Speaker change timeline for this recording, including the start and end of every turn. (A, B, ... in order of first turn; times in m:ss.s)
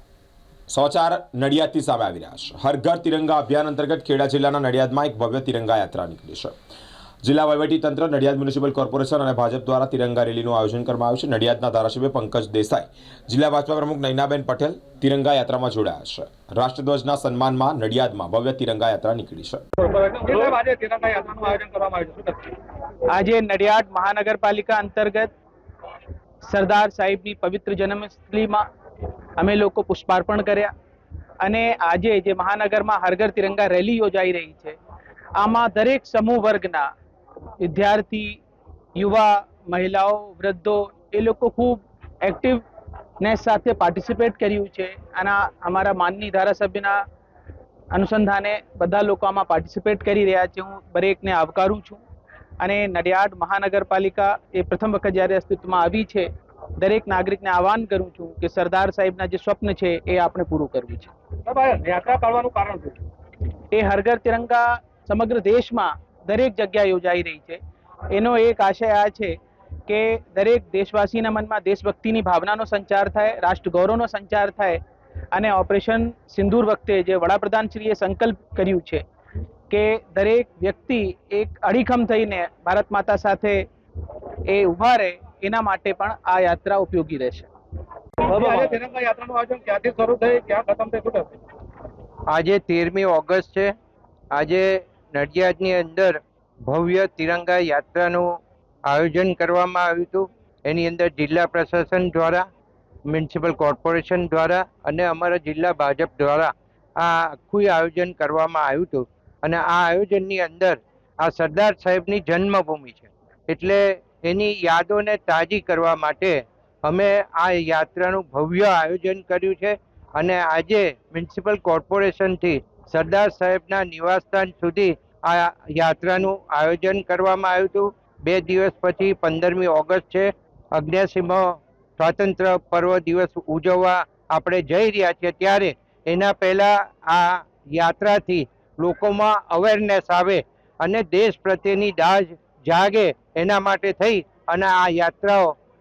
0:00.7-0:06.5 A
0:07.2-0:19.6 A
0:19.8-0:22.6 B
0:23.1-0:25.3 C
0:26.5-0:28.6 C
0:29.4-0:30.7 C
0:31.4-0:34.8 C
0:35.4-0:36.8 C
0:37.6-0:38.4 C
0:39.0-0:42.6 C
0:43.2-0:47.0 C
0:47.9-0:52.0 C
0:52.6-0:56.3 C
0:56.8-1:01.1 C
1:01.5-1:03.0 B
1:03.7-1:07.6 C
1:08.1-1:09.3 C
1:09.9-1:14.8 C
1:15.3-1:19.0 C
1:19.7-1:23.6 C
1:24.5-1:27.5 C
1:28.2-1:31.4 B
1:32.3-1:33.7 D
1:34.3-1:38.3 D
1:38.9-1:42.4 D
1:43.1-2:11.5 D
2:12.0-2:25.5 D